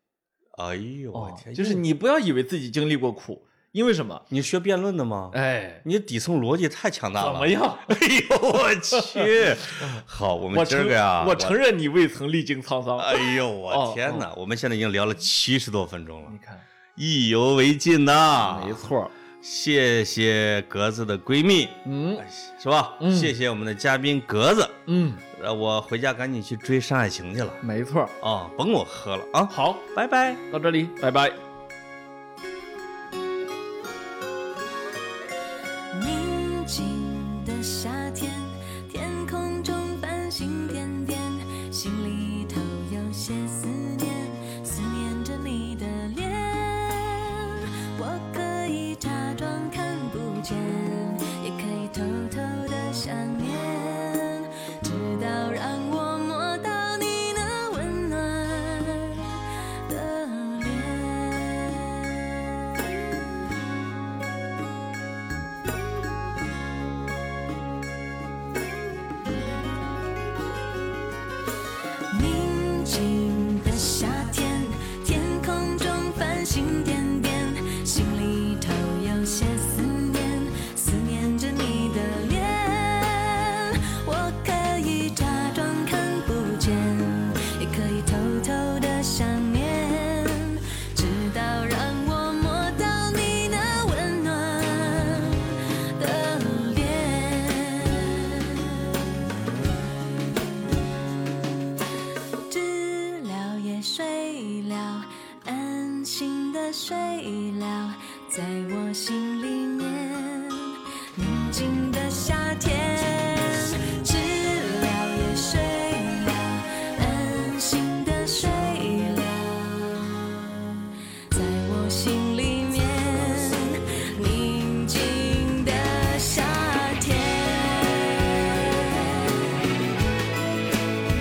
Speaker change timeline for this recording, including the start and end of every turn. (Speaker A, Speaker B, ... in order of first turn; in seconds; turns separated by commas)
Speaker A: 0.5-1.8, Speaker B: 1.1-4.2, Speaker A: 4.3-11.6, Speaker B: 5.3-5.8, Speaker B: 7.2-8.0, Speaker B: 9.0-14.2, Speaker A: 13.0-16.4, Speaker B: 16.2-16.7, Speaker A: 16.9-18.8, Speaker B: 18.4-19.1, Speaker A: 19.4-27.6, Speaker B: 21.8-22.2, Speaker B: 23.0-23.3, Speaker B: 24.9-25.2, Speaker B: 27.6-28.2, Speaker A: 28.2-30.4, Speaker B: 29.5-29.9, Speaker B: 30.5-31.4, Speaker C: 35.9-62.7, Speaker C: 72.1-98.9, Speaker C: 102.5-120.1, Speaker C: 121.3-129.5